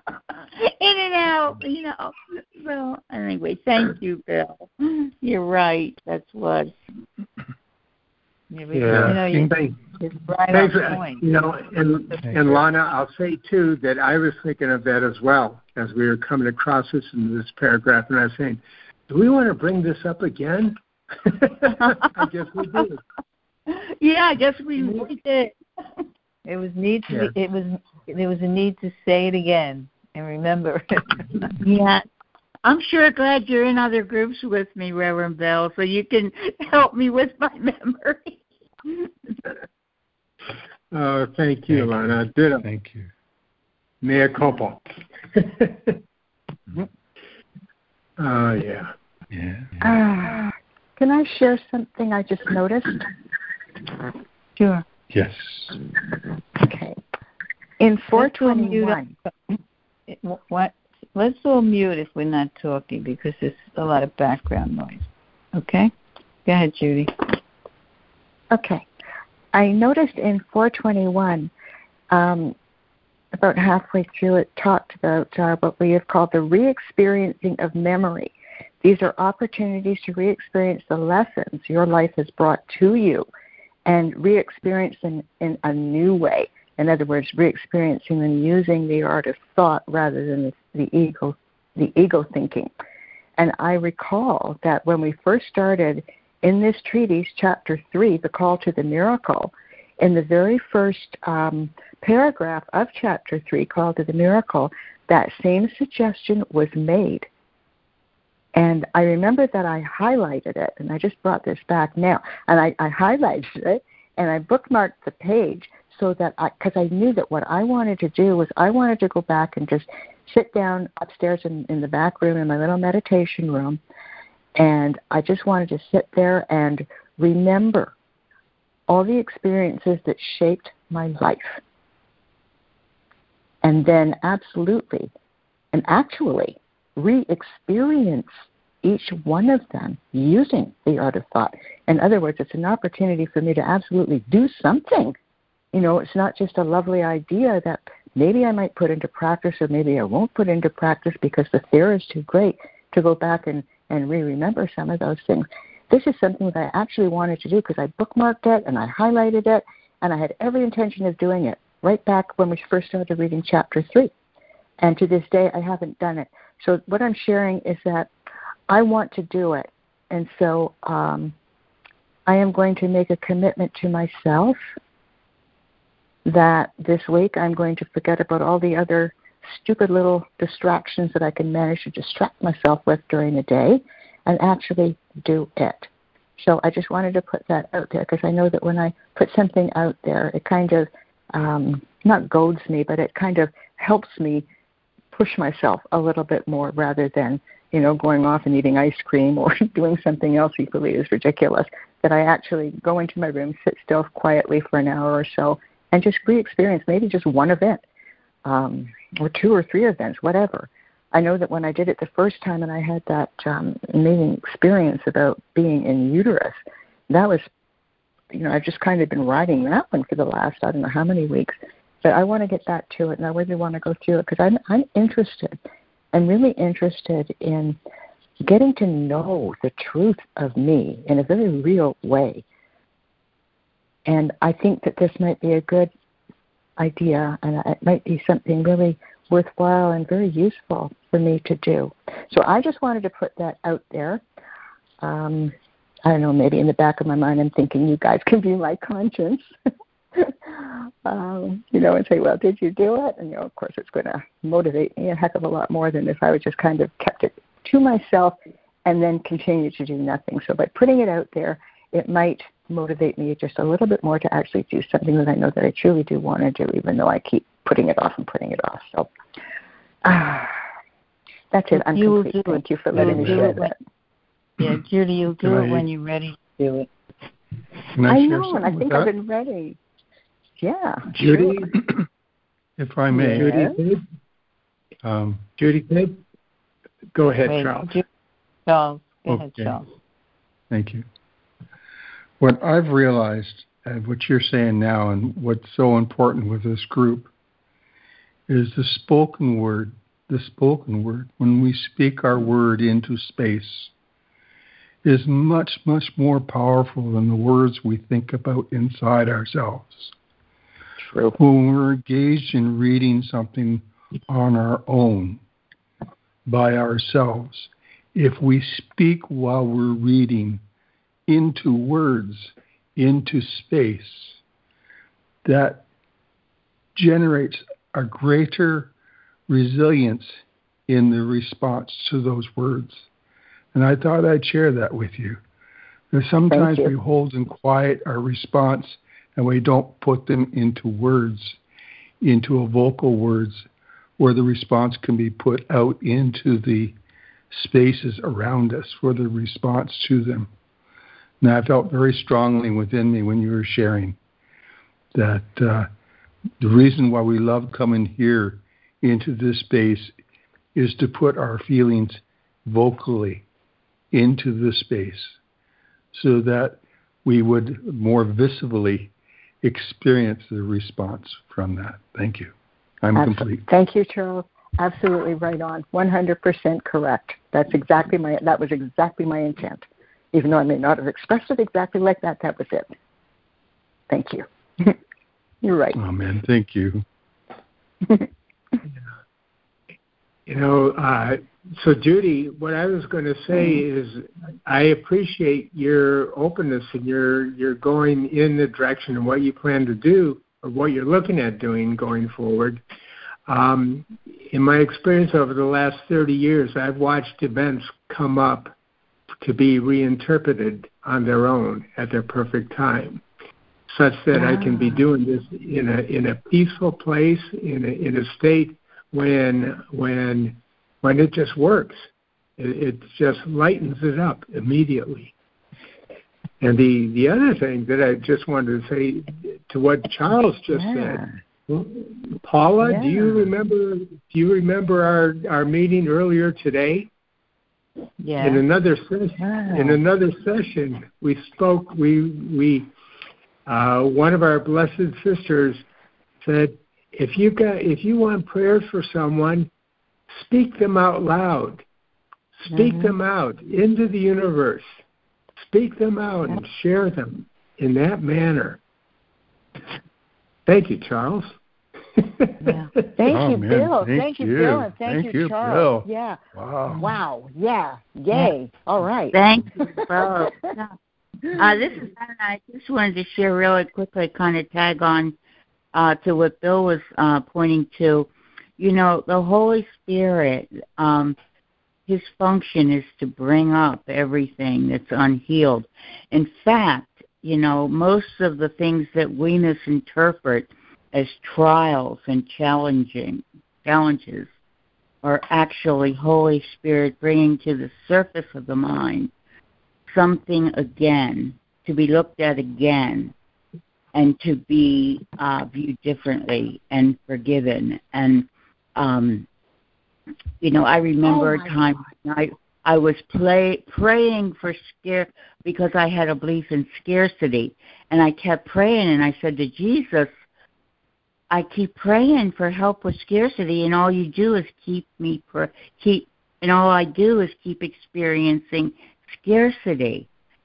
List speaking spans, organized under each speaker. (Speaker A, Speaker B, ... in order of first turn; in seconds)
Speaker A: 0.6-6.7, 23.7-25.5, 31.6-32.0, 32.6-39.3, 469.3-470.9, 471.5-475.3, 475.9-481.4, 482.1-494.5, 495.2-499.3, 500.1-503.3, 504.1-509.5, 510.6-520.3, 521.5-530.3
Speaker B: 8.5-11.2, 26.4-31.5, 54.6-54.8, 58.1-59.3, 60.1-65.9, 66.4-67.1, 271.7-273.7, 274.6-276.9, 287.4-288.0, 288.6-289.9, 438.2-438.6, 452.7-453.1, 462.6-462.9
Speaker C: 8.7-9.8, 10.5-23.0, 40.9-42.6, 44.0-46.0, 48.2-48.9, 281.1-281.8, 283.3-284.0, 285.6-286.2, 287.1-288.0, 390.5-402.8, 403.5-408.7, 409.4-413.2, 413.9-422.1, 422.6-425.3, 426.6-437.1, 438.4-442.9, 443.6-445.8, 446.4-449.7, 450.3-451.8, 452.6-454.9, 455.6-458.8, 460.7-461.5, 462.2-463.0
Speaker D: 8.9-9.5, 12.2-12.6, 41.7-43.1, 49.3-50.0, 55.1-55.8, 272.9-273.5, 275.4-275.9, 277.9-279.1, 282.8-283.5, 285.0-285.4, 289.3-289.8, 290.7-291.0, 292.4-297.3, 298.5-303.9, 305.0-310.1, 311.4-315.4, 316.4-320.6, 321.3-324.4, 325.4-325.8, 326.9-328.9, 329.5-333.1, 333.7-335.4, 336.1-341.6, 342.2-343.6, 344.2-346.9, 347.5-350.5, 351.4-354.2, 355.1-355.9, 356.6-360.1, 360.7-363.4, 364.1-365.4, 366.1-373.7, 385.9-387.0, 463.3-467.1
Speaker E: 49.8-53.1, 56.0-57.0, 57.8-59.1, 68.5-68.9, 69.5-71.5, 72.1-72.5, 73.4-83.2, 83.8-92.7, 93.4-107.3, 108.5-123.8, 124.5-127.9, 128.9-131.6, 133.6-135.1, 135.7-138.3, 138.8-145.1, 145.7-164.1, 164.8-168.1, 168.7-171.3, 172.2-174.6, 176.2-194.4, 195.1-207.8, 208.4-216.6, 217.1-217.4, 218.3-225.6, 226.1-227.8, 228.4-232.4, 234.1-235.9, 236.8-244.2, 245.0-245.5, 246.1-249.4, 250.2-258.3, 258.8-269.1, 270.0-270.6, 271.5-273.7, 278.1-279.8, 280.6-281.6, 283.1-283.8, 311.0-311.4, 336.5-336.9, 373.1-382.9, 384.1-385.0, 385.6-386.0, 388.0-388.8, 393.5-393.8, 414.3-415.0, 430.7-431.3, 432.8-433.4, 439.4-440.0, 463.2-470.7